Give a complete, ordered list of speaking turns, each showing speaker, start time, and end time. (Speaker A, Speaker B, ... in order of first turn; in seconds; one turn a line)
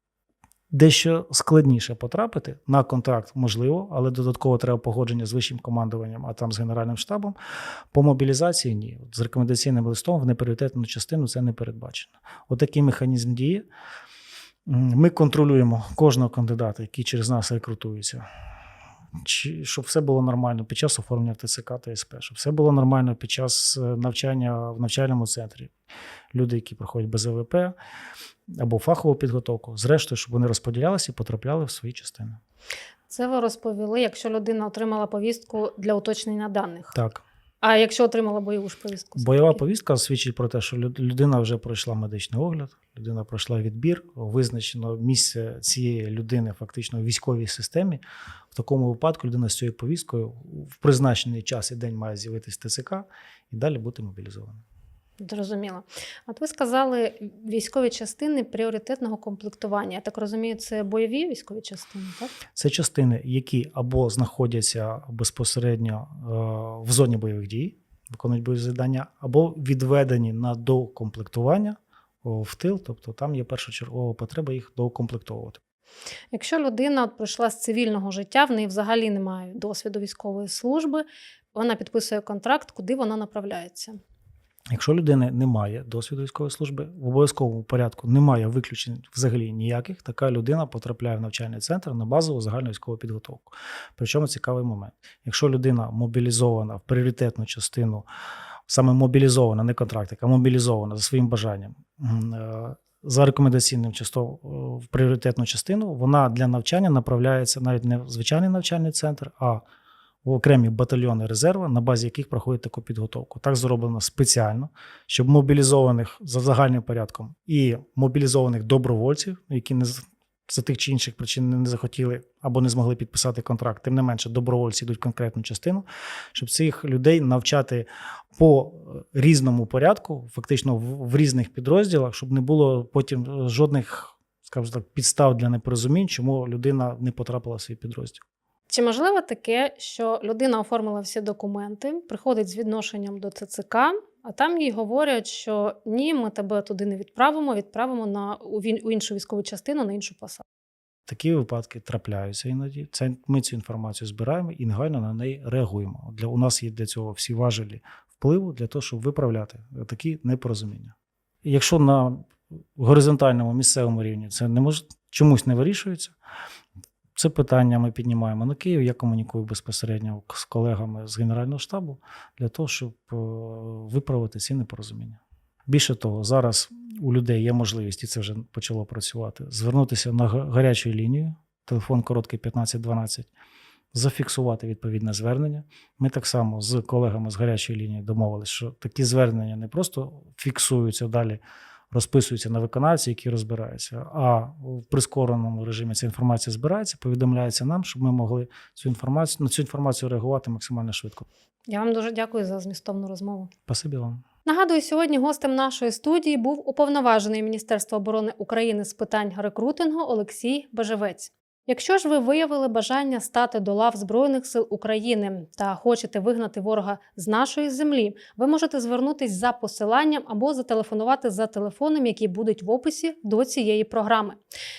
Speaker A: 0.7-7.4
Speaker A: 7.9-13.7
Speaker A: 14.7-18.2
Speaker A: 19.2-25.7
Speaker A: 26.3-27.8
Speaker A: 28.5-32.4
Speaker B: 33.1-37.0
Speaker A: 36.9-37.2
Speaker B: 37.6-39.6
Speaker A: 39.2-48.0
Speaker A: 48.5-54.6
Speaker B: 55.2-62.3
Speaker A: 62.5-75.6
Speaker B: 76.3-84.0
Speaker A: 84.7-98.1
Speaker A: 98.7-109.6
Speaker A: 110.2-138.2
Speaker B: 138.7-150.4
Speaker A: 151.1-166.1
Speaker A: 167.2-183.3
Speaker A: 183.9-201.3
Speaker B: 201.7-203.5
Speaker A: 203.7-204.2
Speaker B: 204.4-224.4